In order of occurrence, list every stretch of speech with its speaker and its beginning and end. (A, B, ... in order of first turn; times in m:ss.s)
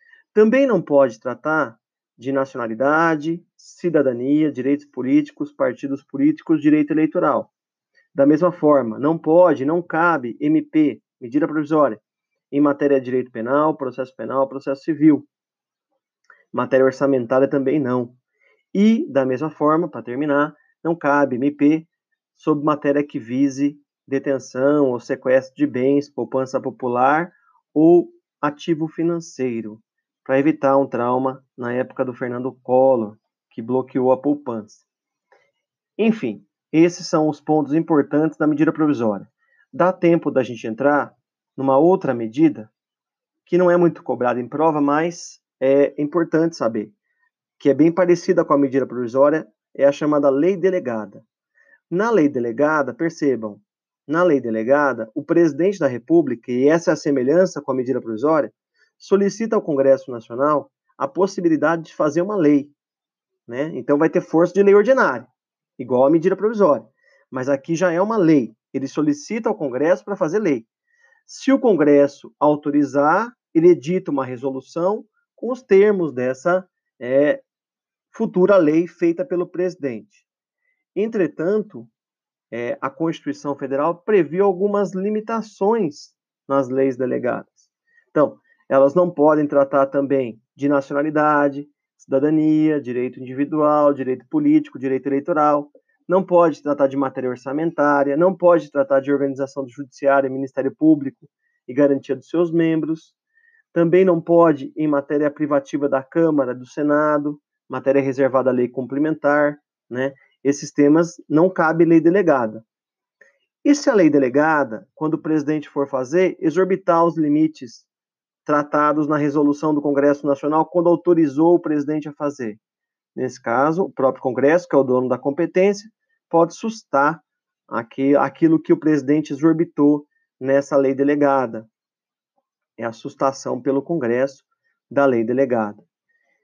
0:00.3-0:07.5 A
0:08.1-0:15.3 A
0:16.5-0:18.2 A
0:18.7-0:34.8 A
0:36.0-0:42.7 A
0:43.4-0:46.9 A
0:47.6-0:51.2 A
0:51.9-1:02.7 A
1:03.5-1:10.7 A
1:11.2-1:17.4 A
1:18.1-1:20.3 A
1:20.9-1:21.9 A
1:22.5-1:43.2 A
1:43.7-1:52.6 A
1:53.6-1:57.9 A
1:58.4-2:02.6 A
2:03.1-2:11.7 A
2:12.8-2:15.8 A